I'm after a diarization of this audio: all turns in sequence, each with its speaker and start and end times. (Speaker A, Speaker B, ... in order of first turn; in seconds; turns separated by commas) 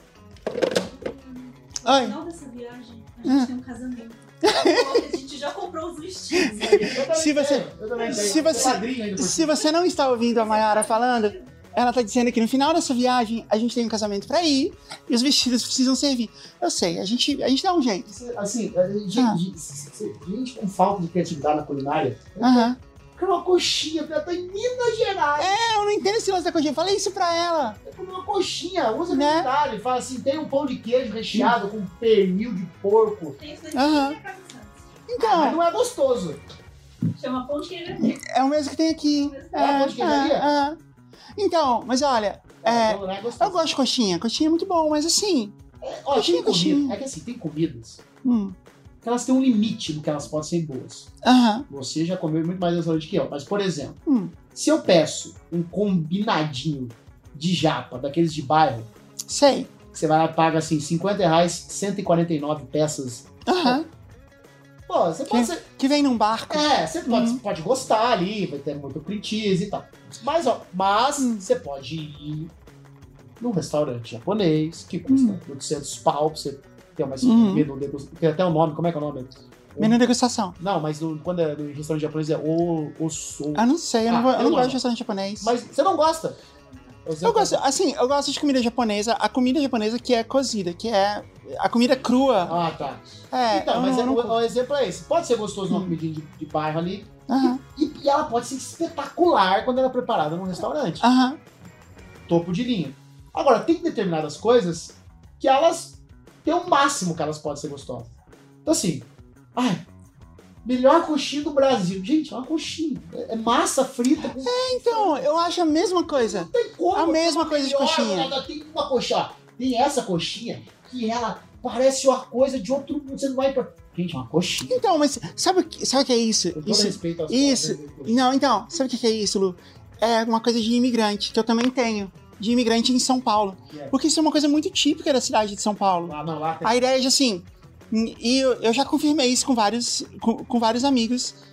Speaker A: 0.8-7.0, Speaker B: 1.8-2.2, Speaker B: 3.2-3.5, Speaker B: 4.4-5.0, Speaker B: 6.3-18.1, Speaker C: 6.5-9.6, Speaker A: 10.3-11.4, Speaker C: 18.1-25.5, Speaker B: 22.4-22.8, Speaker B: 25.4-27.8, Speaker C: 27.8-33.4, Speaker B: 29.1-29.5, Speaker A: 33.4-34.8, Speaker B: 33.7-34.2, Speaker B: 35.1-35.6, Speaker C: 35.2-36.4, Speaker A: 37.1-38.2, Speaker B: 38.0-40.8, Speaker A: 39.2-39.8, Speaker C: 39.5-40.5, Speaker B: 41.4-45.6, Speaker C: 42.6-43.7, Speaker C: 45.8-48.0, Speaker B: 46.1-47.0, Speaker B: 48.2-48.5, Speaker C: 49.0-51.1, Speaker B: 51.2-51.6, Speaker C: 51.7-54.0, Speaker B: 54.1-54.3, Speaker C: 54.5-58.9, Speaker B: 59.3-59.7, Speaker C: 59.9-63.8, Speaker B: 63.5-63.9, Speaker C: 64.9-65.7, Speaker B: 65.3-67.4, Speaker C: 66.5-72.5, Speaker C: 73.4-80.0, Speaker B: 75.1-75.4, Speaker B: 77.2-77.7, Speaker B: 79.8-80.6, Speaker C: 80.6-84.8, Speaker B: 83.5-85.5, Speaker C: 85.4-86.4, Speaker C: 87.0-87.6, Speaker B: 87.2-92.6, Speaker C: 92.5-101.0, Speaker B: 93.3-94.4, Speaker B: 97.3-97.6, Speaker B: 101.0-101.4, Speaker C: 102.3-108.1, Speaker C: 108.6-109.8, Speaker C: 110.6-115.2, Speaker B: 114.4-118.3, Speaker C: 116.1-124.8, Speaker B: 124.7-141.4, Speaker C: 126.5-128.3, Speaker C: 136.0-136.9